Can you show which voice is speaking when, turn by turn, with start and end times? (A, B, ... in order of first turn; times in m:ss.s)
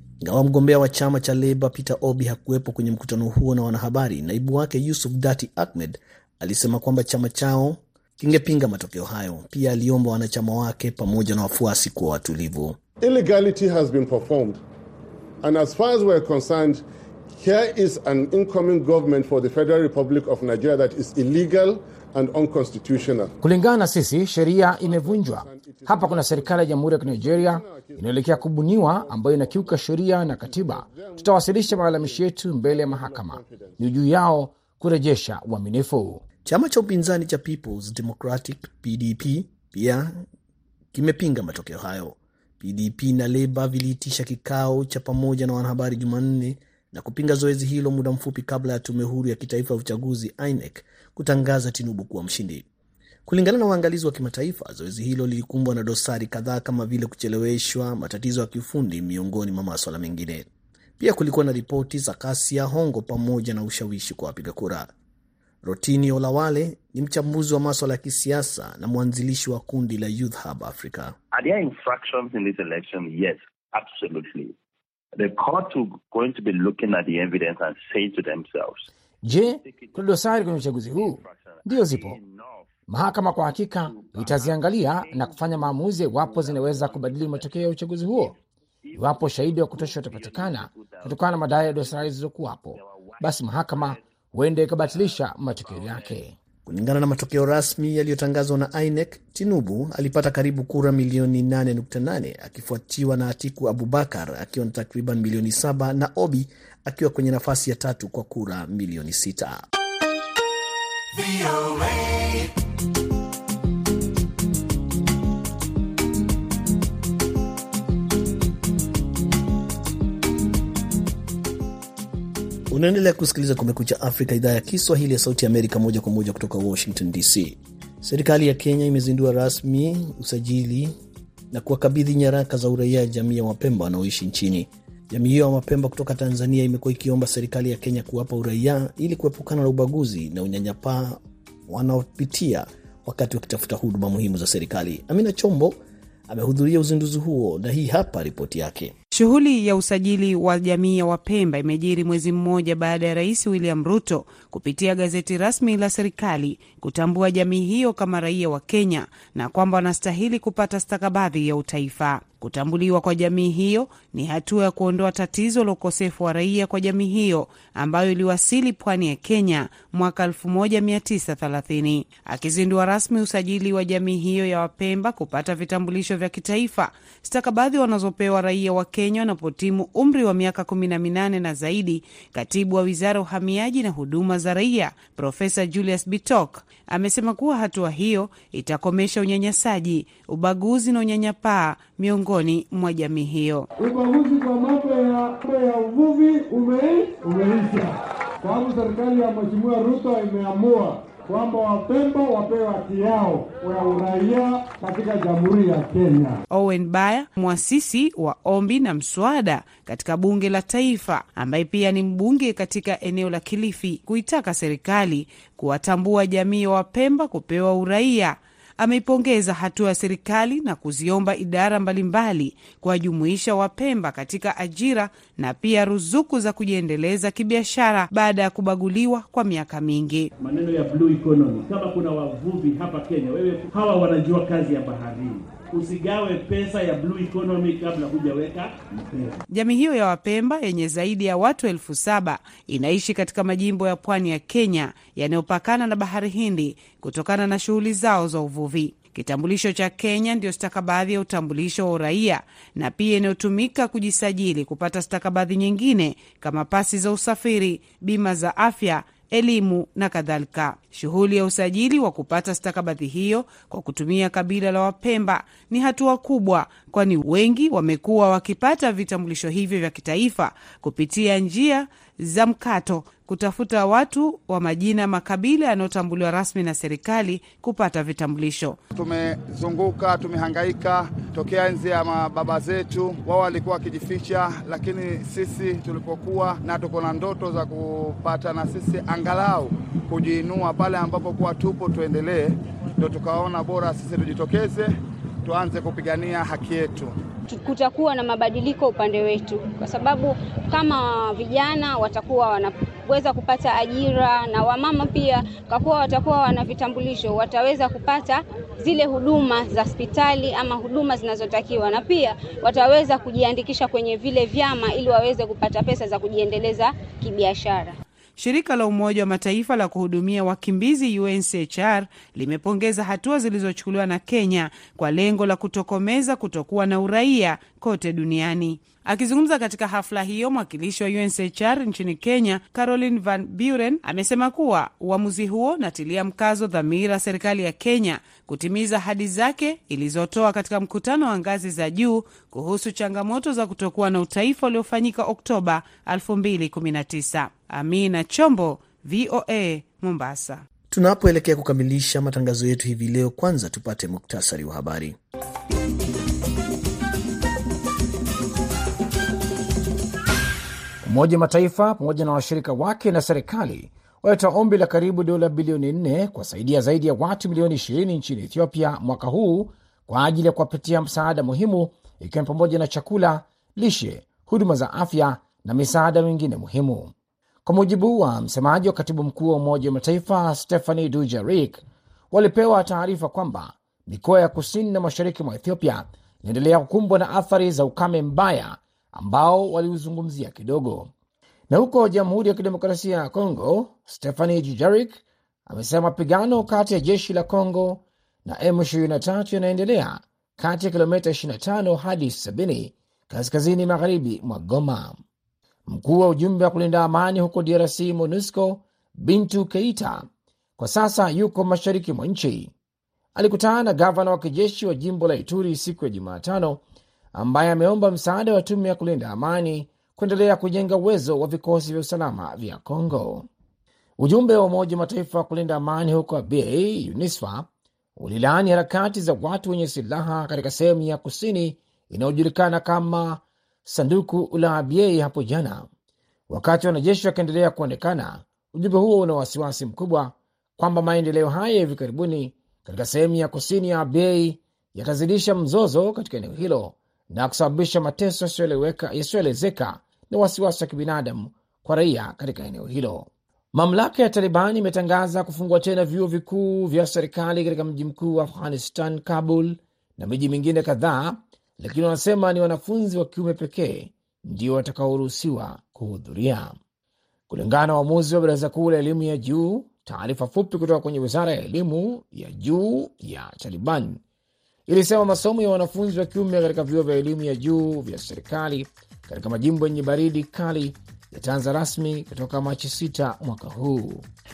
0:00.2-0:12.8 A
0:13.0-0:14.6 B
0:15.4-0:16.8 B
0:17.4-0:23.3 B
0:23.4-0:36.2 C
0:24.7-0:33.8 B
0:36.4-0:40.2 A
0:40.9-0:52.7 A
0:53.3-1:00.5 A
1:01.0-1:04.9 A
1:05.6-1:11.2 A
1:11.3-1:14.6 D
1:15.2-1:18.9 D
1:19.2-1:22.2 C
1:19.6-1:20.0 D
1:20.5-1:22.7 D
1:22.9-1:28.4 C
1:23.8-1:27.6 D
1:28.9-1:32.0 D
1:29.0-1:36.4 C
1:32.7-1:34.0 D
1:34.9-1:36.2 D
1:36.7-1:49.6 A
2:02.7-2:10.9 A
2:11.5-2:28.9 A
2:29.1-3:13.7 E
3:13.8-3:26.4 F
3:26.5-3:50.3 E
3:50.4-3:59.4 G
3:59.5-4:38.8 E
4:39.0-4:52.4 H
4:53.0-4:54.8 H
4:55.4-4:57.1 H
4:57.5-5:18.0 I
5:18.4-5:50.6 E
5:50.9-5:55.2 A
6:01.0-6:17.1 C
6:17.6-6:31.1 C
6:31.7-6:45.2 C
6:45.9-6:52.7 C
6:53.4-6:56.8 C
6:57.4-7:03.5 C
7:04.2-7:15.9 C
7:16.5-7:46.8 C
7:47.5-7:54.2 C
7:54.9-8:04.3 C